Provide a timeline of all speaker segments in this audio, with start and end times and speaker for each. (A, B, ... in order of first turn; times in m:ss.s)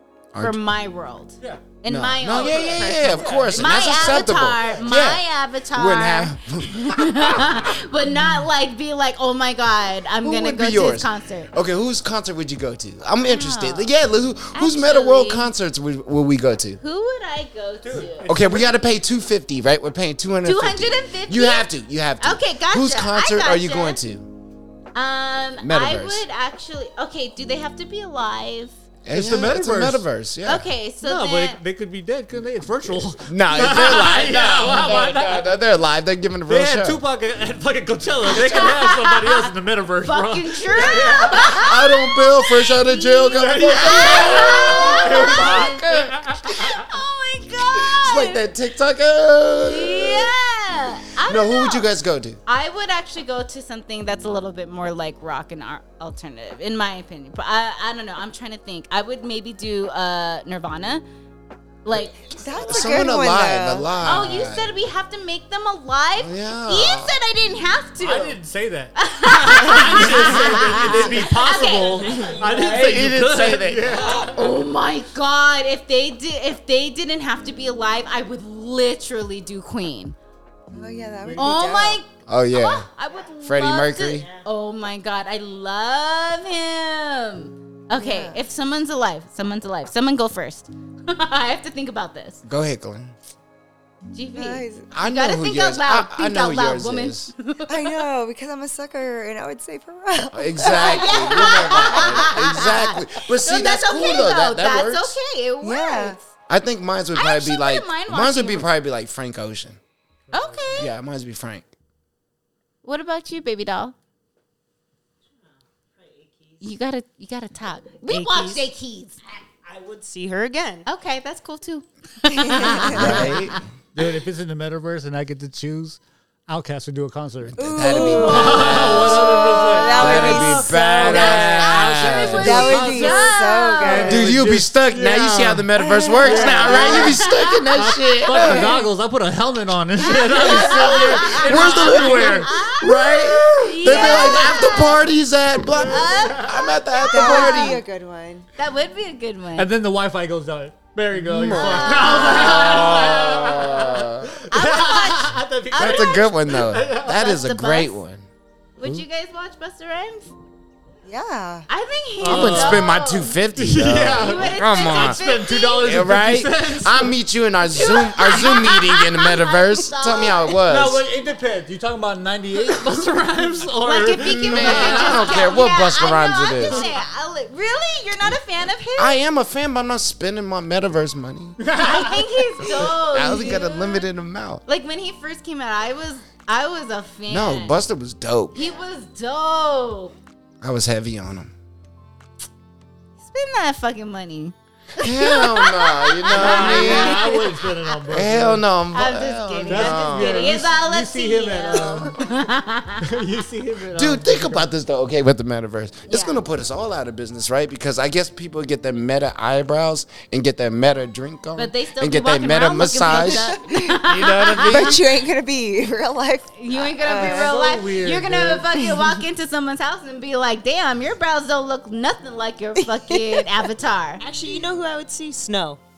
0:00.3-0:00.6 A
0:00.4-0:11.5 B
0:01.8-0:07.7 A
0:02.3-0:04.9 C
0:10.2-0:16.8 A
0:13.2-0:13.9 B
0:14.5-0:15.5 B
0:16.8-0:18.3 B
0:17.8-0:18.8 C
0:18.2-0:24.3 A
0:20.4-0:21.7 B
0:22.2-0:24.0 B
0:24.9-0:28.8 B
0:25.6-0:26.2 A
0:29.0-0:30.7 A
0:29.1-0:30.0 C
0:30.4-0:31.6 B
0:31.0-0:35.6 C
0:33.2-0:37.0 A
0:36.5-0:41.8 C
0:38.3-0:39.5 B
0:40.0-0:45.8 B
0:41.3-0:46.8 A
0:43.3-0:46.8 C
0:46.4-0:48.4 B
0:47.8-0:50.3 A
0:49.6-0:51.8 B
0:51.2-0:52.4 A
0:52.4-1:01.0 B
1:01.8-1:02.2 B
1:02.2-1:03.0 D
1:02.3-1:03.9 E
1:02.6-1:04.7 A
1:04.0-1:08.4 B
1:06.2-1:07.1 A
1:08.0-1:14.4 C
1:09.0-1:12.2 B
1:11.6-1:12.8 D
1:12.6-1:14.2 A
1:14.0-1:20.2 B
1:20.7-1:22.0 E
1:21.2-1:21.5 C
1:21.4-1:32.4 B
1:22.3-1:22.9 A
1:23.4-1:24.3 A
1:24.2-1:24.4 D
1:27.9-1:28.4 E
1:32.4-1:33.1 A
1:34.1-1:38.0 B
1:34.3-1:34.9 E
1:34.9-1:37.3 A
1:37.7-1:42.4 E
1:40.3-1:45.2 A
1:40.6-1:46.3 B
1:45.6-1:46.2 E
1:46.5-1:49.8 A
1:47.1-1:48.7 B
1:50.3-1:50.9 C
1:50.3-1:50.9 B
1:50.8-1:51.6 A
1:52.8-1:53.9 B
1:55.9-1:56.7 D
1:56.6-1:59.2 B
1:58.1-1:58.6 D
1:59.6-2:00.9 D
2:00.9-2:03.6 B
2:02.3-2:03.3 E
2:02.8-2:03.6 A
2:03.9-2:15.7 C
2:07.4-2:12.9 A
2:07.6-2:11.2 E
2:08.0-2:09.1 B
2:09.8-2:12.2 B
2:12.3-2:14.4 E
2:12.8-2:14.2 B
2:14.0-2:18.7 A
2:15.8-2:17.1 E
2:16.2-2:17.2 C
2:16.7-2:17.6 B
2:17.7-2:22.6 C
2:20.0-2:25.1 B
2:20.3-2:27.8 A
2:23.8-2:24.5 E
2:25.7-2:26.7 C
2:25.8-2:27.8 B
2:27.0-2:28.4 E
2:28.6-2:29.7 B
2:29.6-2:37.3 C
2:31.3-2:34.4 A
2:31.5-2:33.0 B
2:34.5-2:36.3 B
2:35.8-2:38.3 A
2:37.1-2:38.0 B
2:38.8-2:40.3 B
2:38.8-2:39.0 A
2:41.0-2:41.6 E
2:41.7-2:43.4 B
2:42.2-2:42.9 C
2:42.2-2:45.2 A
2:43.5-2:47.1 C
2:44.0-2:46.0 B
2:45.8-2:51.0 A
2:47.7-2:50.5 B
2:50.5-2:55.4 C
2:53.8-2:59.2 B
2:54.2-2:56.9 A
2:59.0-3:01.6 A
3:01.6-3:02.8 C
3:01.8-3:04.0 B
3:02.8-3:04.6 A
3:04.6-3:07.8 B
3:07.3-3:08.6 A
3:08.5-3:10.1 B
3:10.6-3:11.5 A
3:13.2-3:18.2 B
3:15.0-3:17.4 A
3:16.3-3:18.6 C
3:18.1-3:20.6 A
3:18.9-3:23.0 B
3:19.6-3:22.2 C
3:23.0-3:24.7 C
3:23.9-3:33.5 A
3:26.1-3:26.4 B
3:31.6-3:35.0 B
3:33.1-3:34.0 E
3:34.0-3:35.0 C
3:34.6-3:37.6 E
3:36.6-3:44.2 B
3:37.1-3:38.9 C
3:42.8-3:43.5 E
3:44.2-3:45.8 D